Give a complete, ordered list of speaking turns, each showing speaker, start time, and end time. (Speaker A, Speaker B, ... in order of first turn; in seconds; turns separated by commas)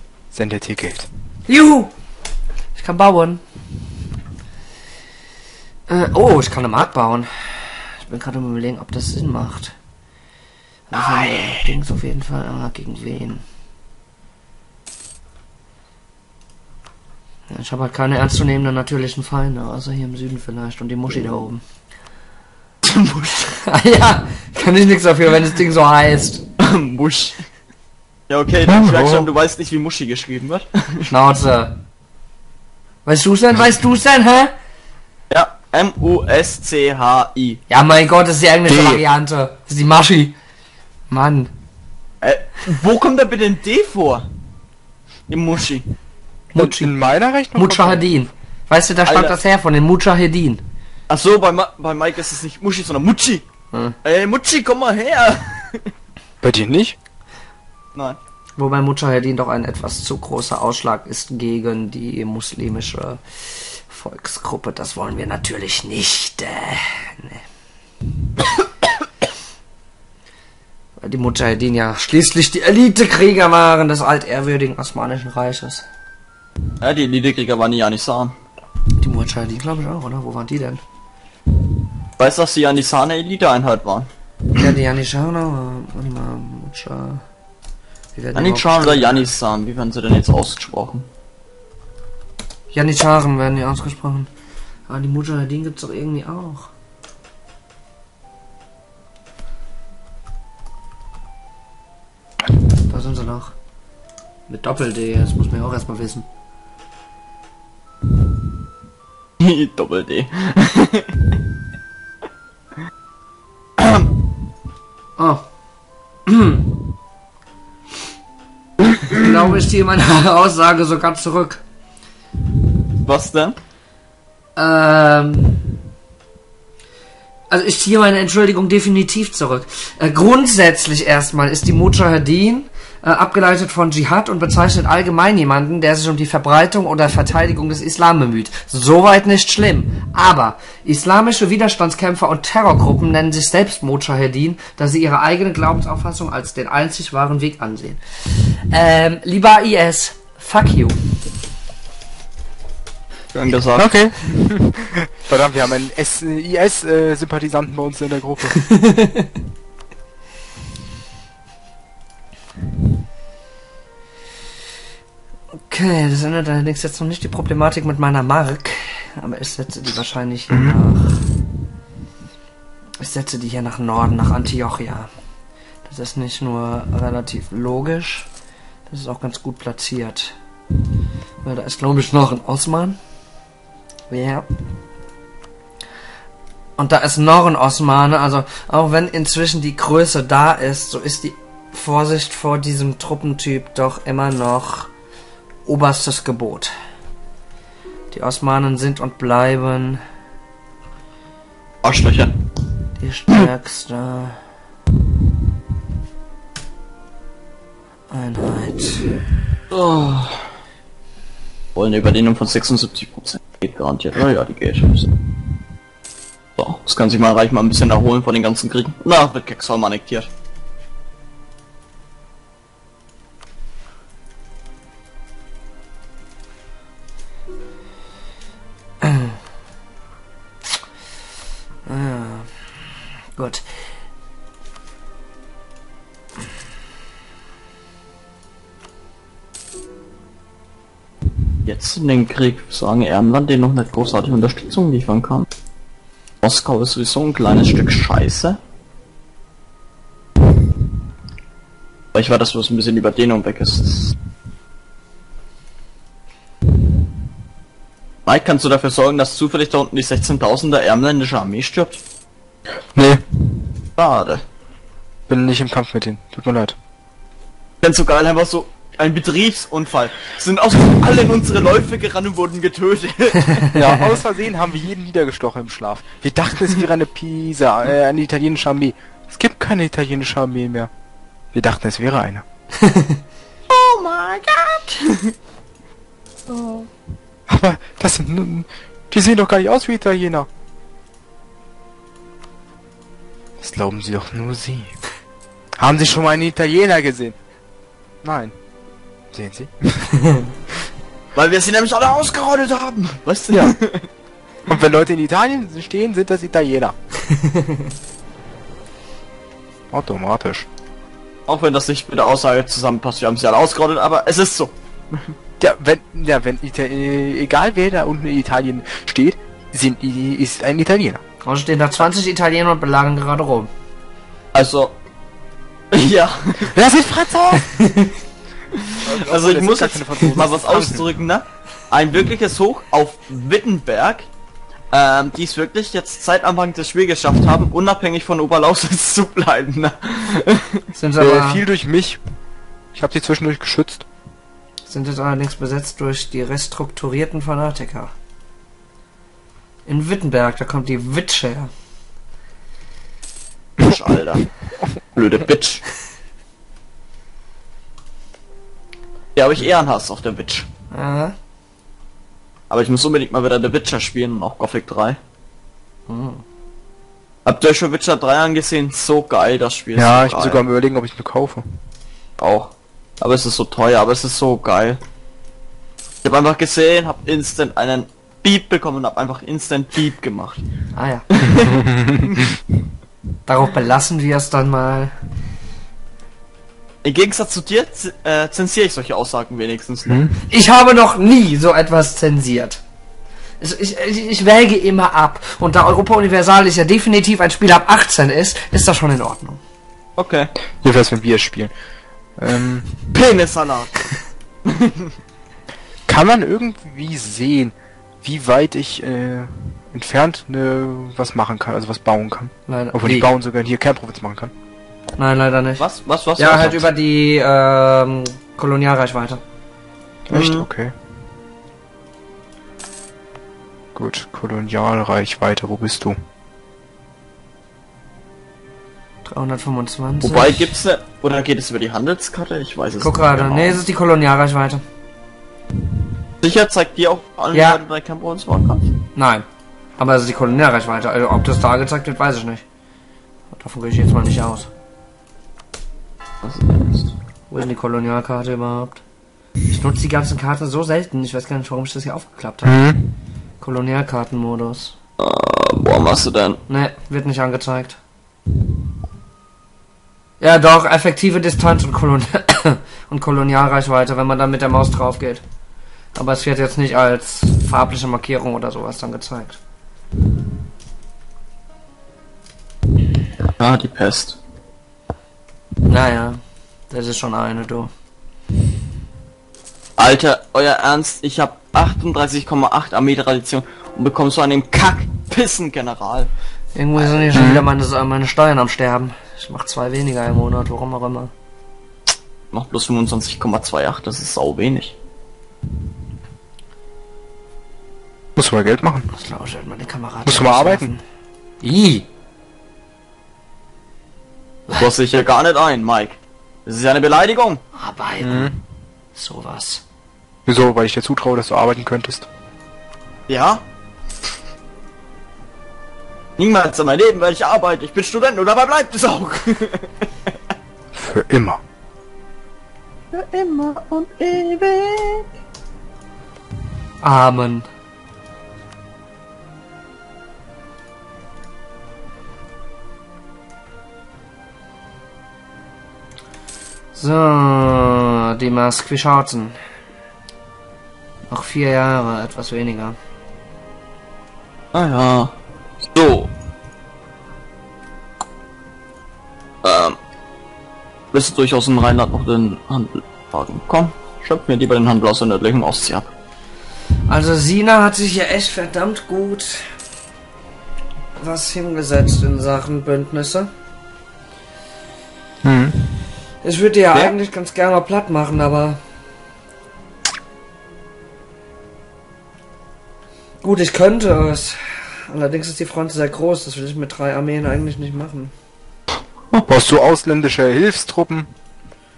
Speaker A: 0.3-1.1, Speaker B: 1.5-1.9, Speaker B: 2.7-3.4, Speaker B: 5.9-9.7, Speaker B: 10.9-13.4, Speaker C: 10.9-11.7, Speaker B: 17.5-21.6, Speaker C: 22.8-23.5, Speaker B: 23.6-26.4, Speaker C: 26.6-27.4, Speaker C: 28.3-31.1, Speaker A: 28.6-29.3, Speaker B: 31.1-31.7, Speaker B: 33.0-34.5, Speaker C: 35.3-37.6, Speaker B: 37.7-40.4, Speaker A: 38.7-39.0, Speaker B: 41.1-41.5, Speaker C: 42.2-44.2, Speaker C: 45.3-45.9, Speaker B: 46.5-46.9, Speaker A: 46.5-48.1, Speaker B: 47.5-50.6, Speaker C: 49.0-49.3, Speaker C: 51.1-53.4, Speaker C: 54.0-55.9, Speaker A: 56.4-57.0, Speaker B: 58.6-67.4, Speaker B: 71.0-75.8, Speaker C: 76.8-78.3, Speaker B: 79.0-80.8, Speaker C: 82.2-84.1, Speaker B: 84.5-87.2, Speaker B: 88.1-89.2, Speaker C: 88.3-91.0, Speaker B: 92.7-94.3, Speaker B: 94.9-96.7, Speaker B: 102.9-103.5, Speaker B: 104.5-106.2, Speaker C: 109.4-111.3, Speaker C: 113.8-114.0, Speaker B: 115.2-115.4, Speaker B: 116.3-116.6, Speaker B: 118.9-121.6, Speaker C: 123.0-123.6, Speaker B: 124.5-125.6, Speaker B: 127.5-150.9, Speaker C: 153.3-153.9, Speaker A: 153.8-158.6, Speaker B: 158.7-159.2, Speaker B: 165.7-171.2, Speaker A: 170.5-170.8, Speaker B: 173.0-175.1, Speaker B: 175.8-178.3, Speaker B: 178.9-180.3, Speaker B: 181.4-183.0, Speaker B: 184.1-184.5, Speaker B: 186.8-194.9, Speaker B: 195.7-196.7, Speaker B: 198.1-200.0, Speaker C: 201.8-202.4, Speaker B: 203.0-204.4, Speaker B: 208.1-209.3, Speaker C: 209.7-210.5, Speaker C: 211.7-215.1, Speaker C: 216.6-220.3, Speaker B: 229.0-229.3, Speaker B: 231.8-232.6, Speaker B: 233.3-233.7, Speaker C: 241.6-245.4, Speaker C: 246.4-248.6, Speaker C: 252.1-254.1, Speaker C: 258.2-262.0, Speaker A: 262.9-263.2, Speaker C: 264.0-264.4, Speaker A: 265.3-266.8, Speaker C: 267.8-273.7, Speaker A: 273.7-280.9, Speaker B: 273.8-274.1, Speaker A: 281.5-282.4, Speaker B: 282.8-283.2, Speaker C: 283.7-285.3, Speaker A: 287.5-290.5, Speaker A: 293.6-294.9, Speaker A: 295.8-297.4, Speaker A: 298.2-298.5, Speaker A: 299.3-300.1, Speaker C: 301.3-304.1, Speaker A: 303.5-303.8, Speaker A: 304.7-306.9, Speaker A: 309.9-310.7, Speaker C: 311.5-315.3, Speaker A: 315.6-321.2, Speaker B: 321.4-323.7, Speaker C: 324.5-324.9, Speaker C: 325.9-326.7, Speaker A: 326.7-327.7, Speaker B: 327.7-328.1, Speaker C: 328.9-334.3, Speaker A: 329.0-331.0, Speaker C: 334.9-340.8, Speaker B: 340.9-341.6, Speaker A: 341.2-342.2, Speaker A: 342.9-344.1, Speaker B: 344.9-348.1, Speaker B: 349.9-351.7, Speaker C: 353.8-354.5, Speaker C: 355.1-355.8, Speaker C: 359.4-360.7, Speaker B: 360.9-361.3, Speaker C: 362.7-365.2, Speaker B: 366.1-366.4, Speaker C: 367.4-370.6, Speaker A: 369.9-371.8, Speaker C: 372.4-375.0, Speaker C: 376.2-380.6, Speaker B: 380.9-381.2, Speaker C: 381.3-381.8, Speaker A: 381.8-382.1, Speaker C: 382.3-382.6, Speaker B: 383.5-385.1, Speaker C: 387.0-390.2, Speaker A: 390.1-390.4, Speaker B: 390.5-392.8, Speaker B: 393.6-399.6, Speaker C: 400.2-400.5, Speaker A: 400.8-401.7, Speaker A: 402.4-403.1, Speaker C: 403.1-405.1, Speaker A: 406.1-414.5, Speaker B: 412.7-413.3, Speaker B: 415.2-415.8, Speaker C: 415.8-416.9, Speaker B: 416.4-419.4, Speaker A: 420.3-420.9, Speaker C: 420.3-420.7, Speaker A: 423.9-426.1, Speaker B: 429.2-430.7, Speaker C: 430.2-433.8, Speaker B: 433.0-434.8, Speaker C: 436.4-438.9, Speaker B: 437.5-437.8, Speaker B: 439.1-439.4, Speaker B: 440.0-442.6, Speaker B: 443.5-444.7, Speaker C: 446.4-447.1, Speaker B: 447.5-449.0, Speaker B: 449.7-452.8, Speaker A: 452.6-453.1, Speaker B: 453.6-454.9, Speaker C: 455.2-456.6, Speaker B: 456.7-458.0, Speaker B: 460.4-465.4, Speaker B: 466.1-469.6, Speaker C: 473.6-474.4, Speaker B: 475.8-476.4, Speaker B: 476.9-477.9, Speaker C: 480.0-486.3, Speaker B: 486.7-491.3, Speaker C: 487.0-487.3, Speaker A: 487.3-487.7, Speaker C: 492.5-494.9, Speaker A: 498.4-499.1, Speaker B: 499.1-501.0, Speaker A: 500.2-500.9, Speaker B: 501.6-502.1, Speaker C: 504.7-507.6, Speaker B: 507.7-508.5, Speaker A: 508.2-508.6, Speaker B: 509.1-509.8, Speaker A: 510.4-512.3, Speaker C: 513.3-513.6, Speaker C: 516.4-520.3, Speaker A: 520.9-521.6, Speaker C: 523.1-525.2, Speaker B: 527.0-527.7, Speaker B: 536.9-539.6, Speaker B: 541.3-543.0, Speaker C: 544.7-545.3, Speaker C: 545.9-546.3, Speaker C: 549.6-550.0, Speaker C: 551.1-556.1, Speaker B: 557.1-559.7, Speaker B: 561.2-563.5, Speaker A: 565.4-565.9, Speaker B: 566.4-568.8, Speaker B: 573.4-578.3, Speaker A: 579.5-581.3